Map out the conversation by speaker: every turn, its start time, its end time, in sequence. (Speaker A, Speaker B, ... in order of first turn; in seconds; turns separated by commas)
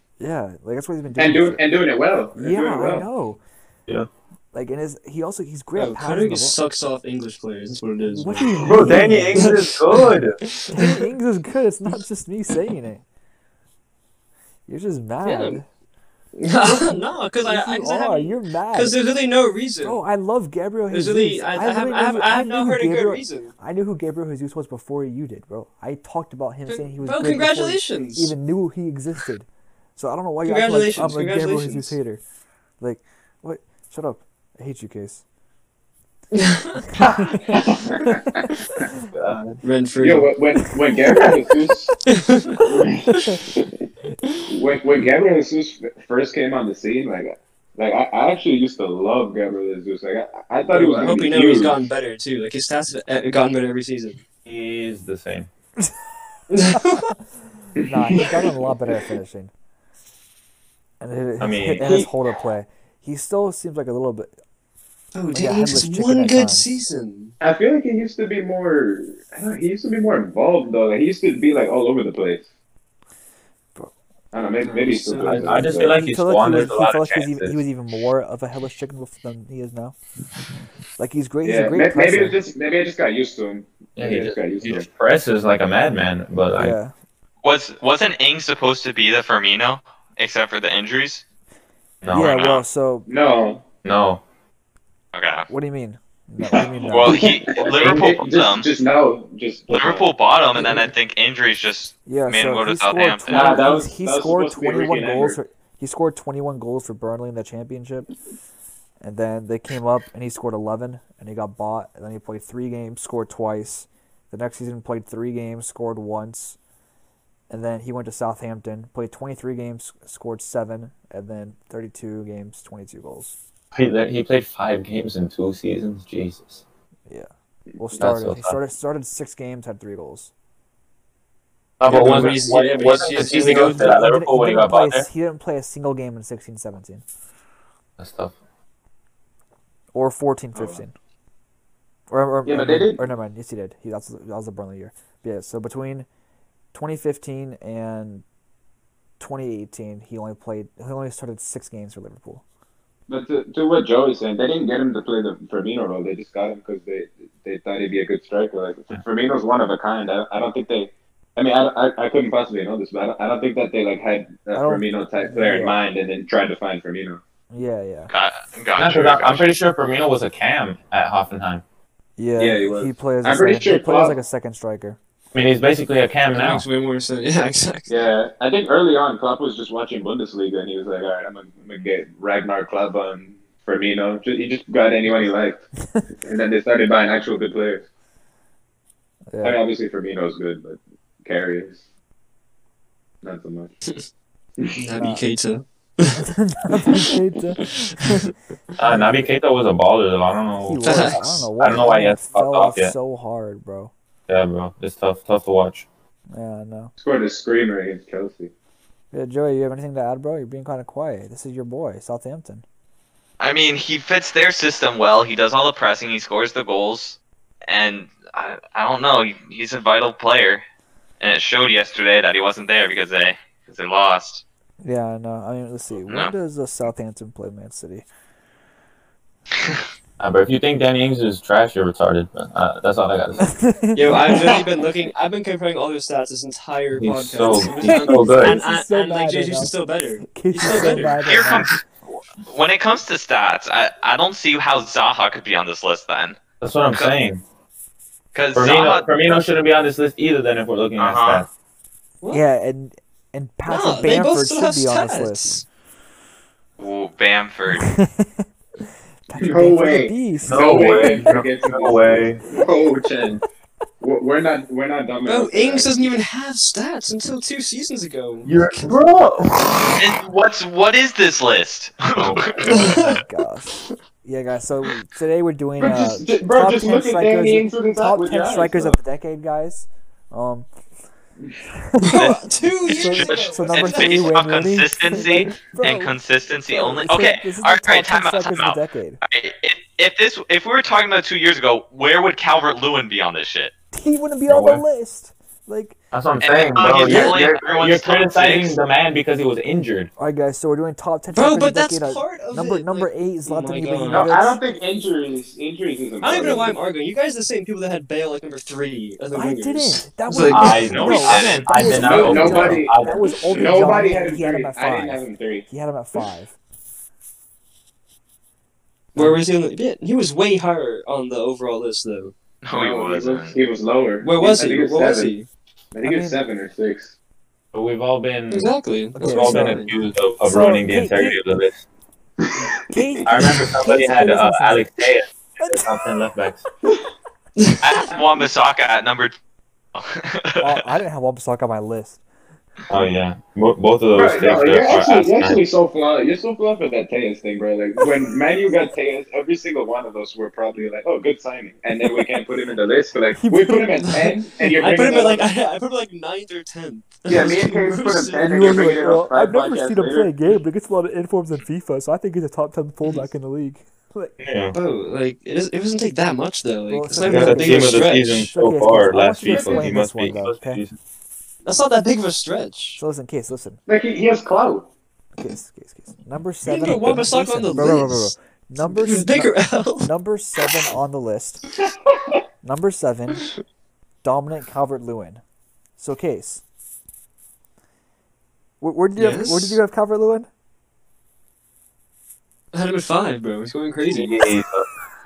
Speaker A: 0.2-1.6, Speaker B: 1.2-3.0, Speaker A: 2.3-3.4, Speaker A: 4.5-6.6, Speaker C: 5.7-11.0, Speaker A: 8.1-9.5, Speaker D: 8.6-10.3, Speaker A: 10.7-13.0, Speaker A: 14.7-15.7, Speaker C: 15.2-15.6, Speaker C: 16.4-20.0, Speaker A: 16.6-19.0, Speaker A: 19.8-32.2, Speaker C: 20.9-23.5, Speaker C: 26.7-28.3, Speaker C: 30.4-32.0, Speaker A: 32.8-35.2, Speaker C: 36.3-36.9, Speaker A: 37.0-37.4, Speaker B: 37.5-38.4, Speaker D: 39.1-39.6, Speaker C: 39.6-40.3, Speaker B: 40.0-41.9, Speaker C: 42.0-43.3, Speaker B: 42.6-43.7, Speaker B: 44.5-51.8, Speaker C: 50.7-54.2, Speaker D: 54.5-55.5, Speaker C: 56.5-57.1, Speaker A: 56.7-57.0, Speaker A: 57.8-59.5, Speaker B: 57.8-58.6, Speaker A: 61.0-64.3, Speaker D: 61.4-62.0, Speaker B: 61.8-62.1, Speaker C: 65.1-67.3, Speaker A: 65.3-66.8, Speaker B: 67.4-72.4, Speaker B: 74.3-76.0, Speaker C: 74.6-75.9, Speaker D: 75.2-77.6, Speaker A: 75.9-80.0, Speaker A: 81.0-82.4, Speaker B: 81.4-84.9, Speaker D: 84.0-86.8, Speaker A: 86.5-86.9, Speaker E: 87.4-91.2, Speaker D: 92.0-92.4, Speaker A: 92.1-93.1, Speaker E: 92.3-92.6, Speaker B: 93.1-93.6, Speaker D: 93.8-94.2, Speaker E: 95.1-95.5, Speaker A: 95.5-97.3, Speaker B: 96.5-100.1, Speaker E: 96.8-98.7, Speaker E: 99.7-103.4, Speaker A: 102.1-108.1, Speaker B: 103.3-105.4, Speaker A: 109.0-116.6, Speaker A: 117.5-123.4, Speaker D: 123.7-126.6, Speaker A: 127.1-130.3, Speaker D: 128.0-128.6, Speaker D: 131.8-135.1, Speaker C: 131.8-134.0, Speaker A: 133.3-137.0, Speaker D: 138.0-138.3, Speaker A: 139.9-140.9, Speaker A: 142.1-146.1, Speaker B: 142.4-143.0, Speaker A: 146.7-148.2, Speaker A: 149.2-152.4, Speaker B: 153.1-167.2, Speaker A: 164.5-165.8, Speaker A: 167.5-168.1, Speaker E: 168.1-169.4, Speaker D: 168.8-171.6, Speaker A: 172.2-175.0, Speaker B: 172.4-174.1, Speaker D: 175.3-176.6, Speaker C: 176.3-178.0, Speaker B: 177.9-185.6, Speaker B: 186.2-187.8, Speaker A: 189.3-189.6, Speaker B: 189.4-191.8, Speaker B: 193.2-193.7, Speaker C: 194.7-196.2, Speaker A: 195.0-195.2, Speaker A: 196.1-198.3, Speaker C: 196.8-197.1, Speaker C: 197.6-198.3, Speaker D: 198.8-202.9, Speaker A: 200.6-203.9, Speaker C: 200.8-201.2, Speaker D: 204.3-205.9, Speaker A: 206.3-206.9, Speaker B: 207.0-208.5, Speaker A: 209.1-212.6, Speaker E: 213.4-220.6, Speaker E: 221.2-224.4, Speaker A: 224.8-228.1, Speaker E: 226.1-226.3, Speaker D: 230.2-233.5, Speaker A: 233.4-234.6, Speaker C: 233.9-241.3, Speaker D: 236.9-238.6, Speaker A: 237.8-241.8, Speaker E: 240.8-241.8, Speaker E: 242.4-247.1, Speaker D: 246.6-247.4, Speaker E: 248.3-249.4, Speaker D: 248.5-251.5, Speaker E: 251.0-251.4, Speaker A: 252.3-255.6, Speaker C: 253.7-255.6, Speaker E: 256.8-257.9, Speaker A: 257.8-258.4, Speaker A: 259.3-261.2, Speaker B: 259.4-263.4, Speaker D: 260.4-262.4, Speaker B: 264.0-266.0, Speaker C: 265.2-269.0, Speaker D: 268.4-270.0, Speaker E: 269.9-272.9, Speaker D: 272.1-273.0, Speaker A: 272.6-280.7, Speaker C: 272.7-273.2, Speaker B: 275.8-278.9, Speaker A: 281.7-282.2, Speaker C: 282.0-284.4, Speaker E: 282.1-293.7, Speaker A: 282.8-286.1, Speaker A: 286.7-289.2, Speaker A: 293.9-296.0, Speaker D: 294.5-294.8, Speaker D: 296.1-300.1, Speaker E: 296.4-298.8, Speaker C: 297.0-297.4, Speaker A: 300.2-304.6, Speaker C: 301.3-304.3, Speaker B: 304.1-306.7, Speaker C: 306.2-311.8, Speaker A: 309.3-316.6, Speaker D: 310.4-313.3, Speaker B: 311.9-315.7, Speaker C: 319.1-322.3, Speaker E: 322.6-323.6, Speaker B: 322.7-325.3, Speaker C: 324.2-325.5, Speaker B: 325.9-327.1, Speaker A: 326.0-326.4, Speaker D: 327.7-331.8, Speaker C: 328.5-329.9, Speaker A: 329.1-331.4, Speaker B: 332.4-332.7, Speaker A: 332.8-335.0, Speaker D: 333.2-336.6, Speaker A: 335.6-335.9, Speaker E: 337.8-339.3, Speaker E: 339.9-340.8, Speaker A: 340.6-342.2, Speaker D: 342.9-345.6, Speaker B: 344.1-355.4, Speaker A: 353.3-354.2, Speaker C: 354.0-358.9, Speaker B: 357.2-360.3, Speaker A: 358.4-364.4, Speaker D: 364.4-364.8, Speaker C: 364.7-368.4, Speaker A: 366.9-370.8, Speaker D: 367.2-370.9, Speaker C: 369.5-369.8, Speaker C: 371.6-373.0, Speaker A: 373.0-373.8, Speaker B: 373.9-374.9, Speaker A: 375.4-381.6, Speaker C: 376.6-378.3, Speaker C: 378.9-380.1, Speaker A: 382.6-383.5, Speaker A: 384.2-385.4, Speaker A: 386.0-386.6, Speaker A: 388.8-390.5, Speaker C: 389.1-389.8, Speaker C: 392.7-394.4, Speaker D: 394.0-394.9